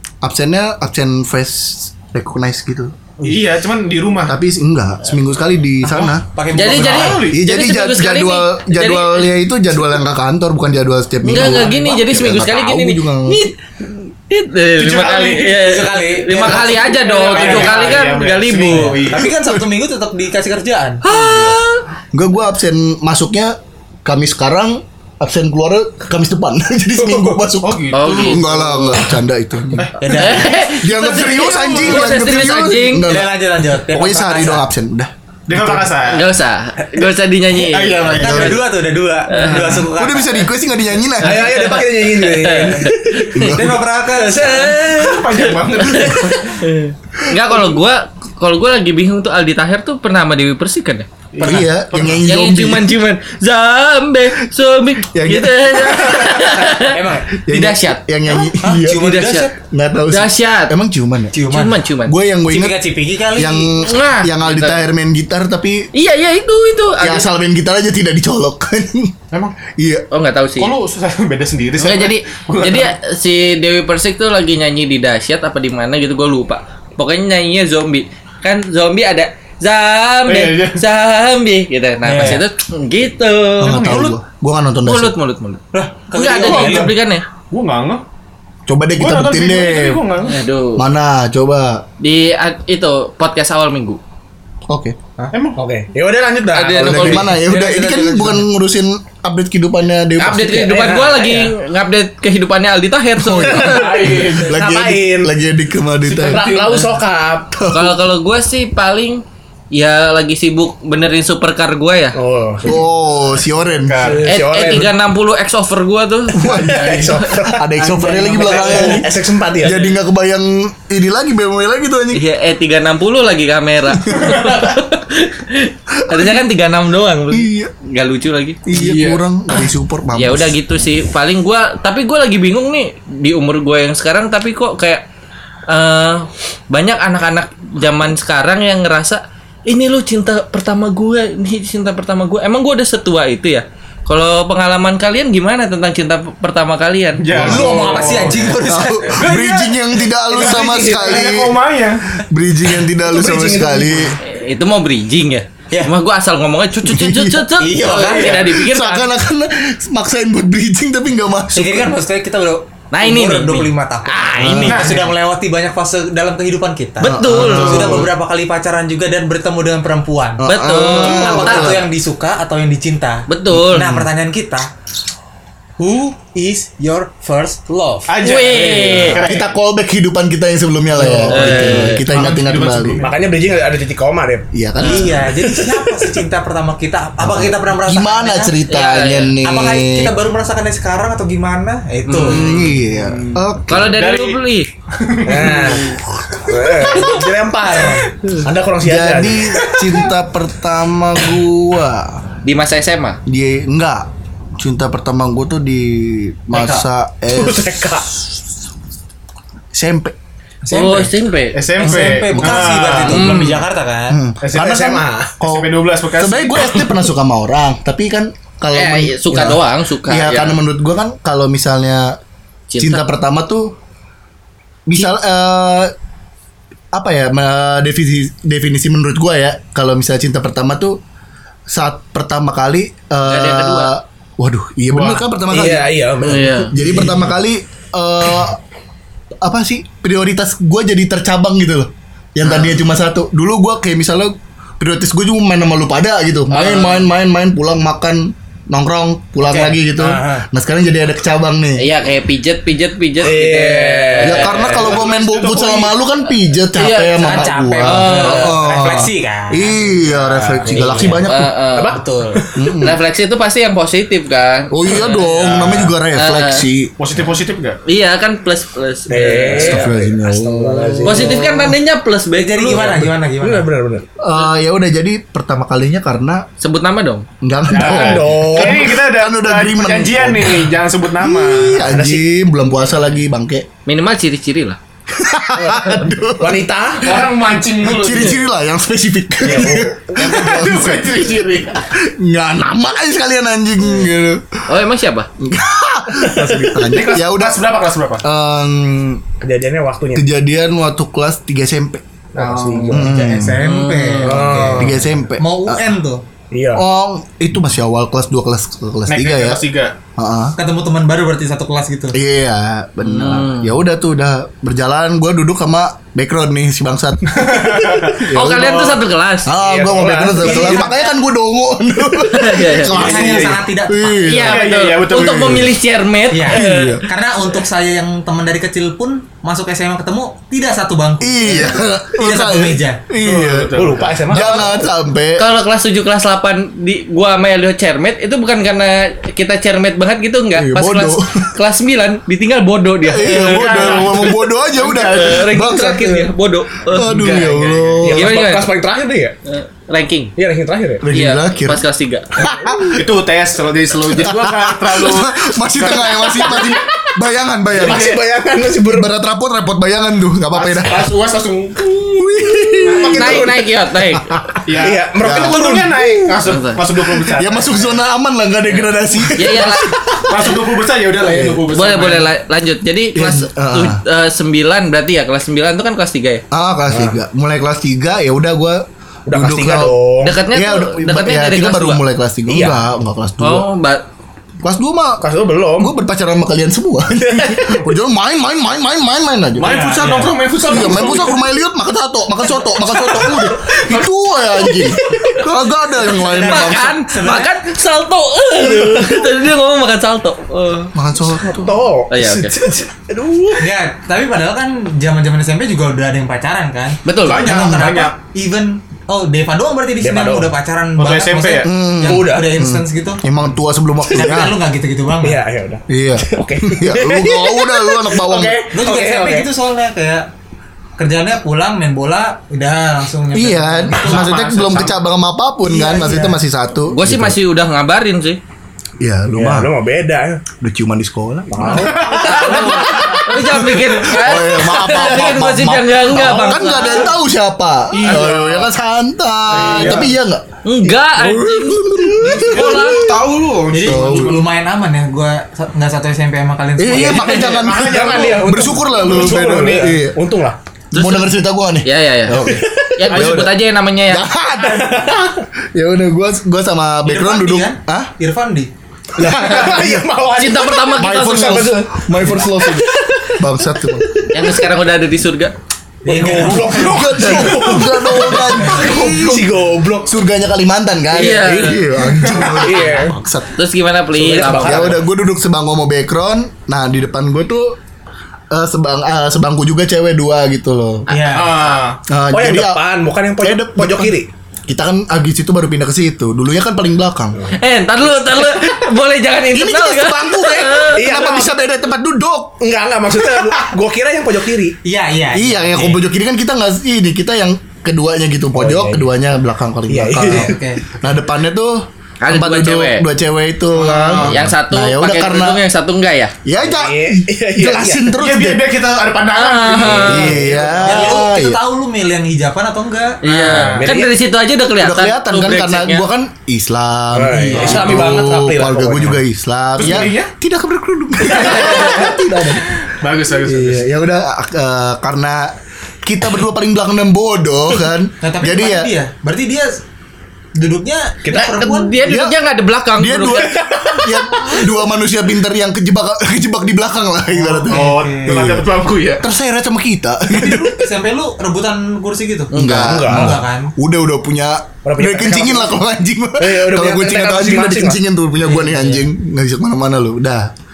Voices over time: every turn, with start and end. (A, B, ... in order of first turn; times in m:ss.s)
0:00.2-0:02.9 A
0:03.2-0:04.4 B
0:04.3-0:13.4 A
0:05.8-0:07.3 C
0:06.5-0:09.3 D
0:06.6-0:07.4 B
0:11.2-0:19.1 D
0:14.8-0:15.6 B
0:15.4-0:21.0 C
0:16.4-0:19.3 B
0:21.0-0:21.8 D
0:21.1-0:21.6 B
0:22.1-0:35.9 A
0:27.6-0:29.1 B
0:27.9-0:28.8 D
0:30.0-0:32.0 C
0:30.1-0:33.2 D
0:33.0-0:34.7 C
0:35.5-0:36.3 B
0:36.0-0:38.6 D
0:37.6-0:38.6 B
0:38.0-0:38.6 A
0:38.1-0:40.5 C
0:39.3-0:39.9 D
0:39.4-0:39.8 B
0:39.9-0:41.6 A
0:41.2-0:43.3 E
0:41.2-0:51.1 D
0:43.3-0:43.8 A
0:43.4-0:44.8 C
0:44.4-0:46.6 B
0:51.3-0:52.3 B
0:51.4-0:51.7 C
0:51.4-0:53.0 A
0:52.2-0:59.5 D
0:55.1-0:56.8 A
0:56.9-0:57.3 C
0:57.4-1:01.3 A
0:58.6-0:59.6 C
1:00.1-1:00.8 D
1:01.3-1:01.8 C
1:01.5-1:02.2 D
1:02.0-1:02.8 A
1:02.5-1:03.8 C
1:03.3-1:05.9 A
1:03.8-1:04.8 D
1:05.9-1:07.3 D
1:07.0-1:09.2 A
1:09.3-1:09.6 B
1:09.7-1:10.1 A
1:10.1-1:10.7 D
1:10.6-1:12.9 B
1:11.8-1:24.0 D
1:20.3-1:20.8 B
1:22.0-1:22.4 C
1:23.6-1:25.2 A
1:23.7-1:24.1 B
1:23.8-1:24.2 C
1:24.8-1:27.2 D
1:25.7-1:26.9 C
1:26.3-1:27.0 B
1:27.5-1:28.0 B
1:28.7-1:30.0 A
1:29.0-1:30.4 B
1:30.2-1:30.8 D
1:30.8-1:31.8 A
1:32.0-1:34.0 D
1:34.7-1:35.0 A
1:35.3-1:35.6 B
1:35.6-1:37.3 E
1:36.5-1:38.4 D
1:36.8-1:40.8 A
1:40.2-1:44.4 D
1:40.6-1:41.5 E
1:43.2-1:46.5 A
1:43.4-1:45.3 E
1:44.0-1:44.5 B
1:46.1-1:47.6 E
1:46.3-1:46.9 D
1:47.5-1:48.0 A
1:47.7-1:52.2 D
1:52.1-1:52.8 E
1:52.6-1:54.0 A
1:53.8-1:54.3 B
1:54.0-1:54.9 E
1:54.2-1:57.5 D
1:56.4-2:02.2 A
1:56.4-1:59.9 E
1:58.0-1:58.9 C
2:02.1-2:08.7 D
2:06.1-2:06.4 A
2:07.3-2:07.7 A
2:08.7-2:10.6 A
2:08.7-2:09.2 B
2:10.2-2:15.0 D
2:15.7-2:27.6 D
2:27.2-2:28.6 B
2:27.3-2:27.8 A
2:27.4-2:29.8 C
2:28.6-2:31.6 A
2:30.3-2:32.2 B
2:30.4-2:31.2 E
2:32.2-2:34.2 A
2:33.1-2:34.2 E
2:34.2-2:39.1 D
2:36.8-2:37.6 A
2:37.6-2:38.5 C
2:38.4-2:41.9 A
2:41.6-2:54.7 C
2:42.9-2:45.0 D
2:44.4-2:45.0 A
2:44.6-2:45.1 B
2:47.0-2:48.0 D
2:47.0-2:48.1 A
2:47.4-2:48.0 B
2:50.4-2:51.9 A
2:50.4-2:51.8 D
2:53.3-2:54.0 D
2:55.8-2:58.1 C
2:58.1-2:59.5 B
2:58.2-2:59.2 D
2:59.0-3:03.0 A
3:01.0-3:01.6 C
3:01.3-3:02.1 D
3:01.5-3:03.2 B
3:03.0-3:04.5 E
3:04.5-3:05.3 A
3:04.8-3:05.1 D
3:04.8-3:08.6 C
3:05.3-3:06.2 E
3:07.2-3:10.1 A
3:08.7-3:09.4 D
3:09.4-3:12.4 C
3:12.1-3:12.8 D
3:12.2-3:14.0 A
3:12.8-3:16.0 B
3:13.7-3:14.7 D
3:15.2-3:19.6 E
3:15.7-3:16.0 D
3:18.8-3:22.2 A
3:22.4-3:23.2 D
3:23.3-3:27.9 A
3:26.5-3:26.8 C
3:27.3-3:28.2 E
3:29.7-3:30.2 A
3:30.6-3:31.1 C
3:30.7-3:31.6 D
3:31.5-3:33.6 B
3:31.8-3:34.2 C
3:31.8-3:33.2 A
3:33.1-3:33.6 D
3:34.1-3:42.2 A
3:34.4-3:36.9 B
3:34.5-3:35.4 E
3:38.7-3:40.6 D
3:42.7-3:43.0 D
3:42.8-3:43.7 A
3:44.9-3:45.9 A
3:46.9-3:51.0 A
3:51.7-3:56.0 A
3:53.3-3:53.9 D
3:54.9-3:55.2 B
3:55.5-3:57.2 E
3:56.2-3:56.7 D
3:56.7-3:58.6 A
3:59.4-4:11.9 A
4:06.5-4:07.1 D
4:09.4-4:10.4 C
4:11.8-4:14.9 D
4:13.2-4:14.5 E
4:14.2-4:21.5 A
4:14.5-4:16.0 B
4:16.8-4:18.6 D
4:17.2-4:19.8 C
4:20.6-4:22.7 E
4:20.7-4:21.2 C
4:21.2-4:22.0 D
4:21.9-4:22.4 C
4:22.6-4:23.0 A
4:22.8-4:25.3 D
4:24.7-4:26.9 A
4:25.2-4:25.9 B
4:26.1-4:26.7 D
4:27.0-4:27.8 B
4:27.9-4:29.9 D
4:29.1-4:31.6 E
4:29.5-4:31.5 A
4:31.0-4:33.0 D
4:32.3-4:33.7 C
4:32.8-4:34.1 E
4:34.2-4:36.5 A
4:36.6-4:37.3 D
4:37.4-4:43.7 A
4:37.7-4:42.0 B
4:37.8-4:38.9 E
4:43.9-4:44.8 D
4:45.1-4:47.2 A
4:45.6-4:47.2 E
4:47.0-4:48.4 B
4:47.8-4:51.1 A
4:49.4-4:50.0 E
4:49.5-4:51.9 B
4:52.0-4:54.6 A
4:54.7-4:55.3 D
4:55.4-4:57.6 A
4:56.2-4:56.8 E
4:56.8-4:58.2 B
4:58.2-4:59.2 A
4:59.4-5:00.3 E
5:00.2-5:02.0 A
5:02.3-5:03.1 E
5:02.4-5:03.1 B
5:02.9-5:03.6 A
5:03.0-5:06.2 C
5:03.6-5:04.7 D
5:04.2-5:05.0 E
5:04.8-5:05.8 A
5:06.5-5:06.8 E
5:06.8-5:09.6 A
5:09.1-5:10.0 B
5:10.2-5:10.6 A
5:10.6-5:12.2 C
5:12.1-5:25.5 A
5:13.0-5:13.7 D
5:17.3-5:18.3 B
5:18.3-5:19.6 D
5:19.6-5:20.8 E
5:20.3-5:21.1 C
5:22.2-5:23.2 D
5:22.9-5:23.6 B
5:22.9-5:24.3 C
5:24.2-5:27.0 D
5:24.4-5:25.7 B
5:26.3-5:33.0 C
5:26.5-5:27.0 A
5:31.2-5:33.7 A
5:33.2-5:34.4 B
5:33.8-5:34.9 E
5:34.3-5:35.5 A
5:35.4-5:47.3 D
5:40.6-5:41.5 A
5:43.0-5:46.3 A
5:43.2-5:45.4 B
5:46.9-5:48.4 A
5:46.9-5:48.1 B
5:48.0-5:49.4 E
5:48.1-5:48.7 D
5:49.5-5:50.3 D
5:50.4-5:51.0 E
5:51.0-5:51.8 A
5:51.1-5:52.4 D
5:52.4-5:53.1 A
5:52.4-5:56.8 B
5:54.1-5:58.2 A
5:56.7-5:57.1 E
5:57.7-5:58.2 B
5:57.8-5:59.1 E
5:58.8-6:01.1 A
6:00.5-6:02.2 B
6:02.1-6:03.4 A
6:02.8-6:03.6 E
6:02.8-6:03.6 B
6:03.0-6:04.3 D
6:04.1-6:04.7 A
6:04.7-6:08.0 B
6:04.8-6:06.4 E
6:05.2-6:05.7 A
6:06.4-6:06.8 D
6:07.2-6:10.6 A
6:09.3-6:10.0 D
6:10.3-6:12.3 B
6:11.2-6:11.7 A
6:11.7-6:16.4 D
6:13.2-6:14.0 A
6:16.5-6:19.9 A
6:16.9-6:17.2 E
6:19.3-6:20.4 E
6:20.2-6:22.0 D
6:20.5-6:23.7 A
6:22.5-6:22.8 E
6:23.4-6:24.0 D
6:24.6-6:25.2 A
6:25.2-6:25.9 E
6:25.8-6:37.0 A
6:27.2-6:27.8 E
6:29.6-6:31.4 B
6:29.7-6:30.4 C
6:33.8-6:34.0 B
6:36.1-6:37.5 C
6:36.3-6:40.9 D
6:38.7-6:39.2 E
6:40.9-6:41.8 A
6:41.5-6:43.7 E
6:42.1-6:42.6 D
6:43.6-6:53.2 C
6:47.1-6:47.6 D
6:47.2-6:48.1 B
6:47.4-6:47.9 A
6:50.0-6:50.5 E
6:51.0-6:51.7 B
6:51.6-6:54.6 A
6:52.0-6:52.6 E
6:54.1-6:55.4 C
6:55.2-6:59.5 E
6:55.9-6:58.6 A
6:58.7-7:00.3 C
7:01.0-7:04.4 C
7:03.3-7:07.4 A
7:04.0-7:05.0 B
7:05.6-7:06.4 C
7:06.9-7:08.4 D
7:09.0-7:09.7 A
7:09.3-7:10.4 E
7:10.6-7:23.2 A
7:11.5-7:12.5 E
7:11.7-7:13.2 B
7:12.3-7:17.2 D
7:17.9-7:18.7 B
7:19.5-7:20.1 B
7:19.6-7:20.0 C
7:19.7-7:20.0 E
7:20.6-7:23.2 D
7:22.2-7:22.6 C
7:22.4-7:24.4 B
7:23.7-7:27.5 C
7:23.8-7:24.4 A
7:26.8-7:30.2 A
7:27.2-7:29.9 B
7:27.7-7:30.6 E
7:30.9-7:33.6 A
7:30.9-7:34.3 D
7:32.4-7:33.1 E
7:34.1-7:35.1 A
7:34.6-7:35.4 E
7:35.7-7:38.1 A
7:37.0-7:38.7 C
7:39.2-7:40.1 A
7:39.2-7:43.4 E
7:40.4-7:41.8 D
7:41.0-7:44.1 A
7:44.3-7:45.5 D
7:46.0-7:46.9 C
7:46.0-7:50.1 E
7:46.3-7:48.0 B
7:46.7-7:53.6 A
7:48.5-7:49.1 C
7:51.1-7:52.2 D
7:51.3-7:53.2 E
7:53.5-7:55.0 D
7:54.1-7:55.0 E
7:54.4-7:57.8 A
7:58.5-8:01.1 A
8:01.1-8:01.5 C
8:01.3-8:02.0 B
8:02.1-8:02.8 A
8:02.3-8:04.3 E
8:03.4-8:04.1 A
8:04.7-8:07.5 A
8:07.6-8:11.2 D
8:09.5-8:12.6 A
8:10.9-8:11.5 E
8:12.6-8:14.8 E
8:14.8-8:16.0 C
8:15.3-8:25.6 A
8:18.5-8:19.1 E
8:19.9-8:20.6 E
8:20.2-8:20.8 C
8:22.2-8:23.1 D
8:23.7-8:24.5 B
8:24.2-8:26.3 D
8:26.4-8:28.7 A
8:26.6-8:28.2 E
8:28.2-8:31.1 B
8:29.3-8:30.4 D
8:29.8-8:31.6 A
8:30.8-8:33.7 C
8:33.2-8:36.1 D
8:33.3-8:33.9 B
8:33.6-8:34.1 E
8:34.8-8:42.8 A
8:37.1-8:39.2 E
8:37.6-8:38.0 C
8:37.6-8:37.9 B
8:39.8-8:40.3 B
8:41.3-8:42.1 B
8:42.9-8:43.9 B
8:43.4-8:48.9 A
8:48.2-8:49.8 C
8:50.6-8:52.0 C
8:51.2-8:51.6 E
8:51.3-8:53.9 D
8:52.0-8:52.4 A
8:53.0-8:58.7 A
8:53.4-8:54.6 E
8:57.6-8:59.2 B
8:57.7-8:58.5 C
8:59.2-9:00.8 A
9:00.3-9:03.7 C
9:02.5-9:10.5 A
9:02.6-9:03.4 E
9:04.8-9:05.8 E
9:06.4-9:08.0 E
9:08.4-9:09.0 C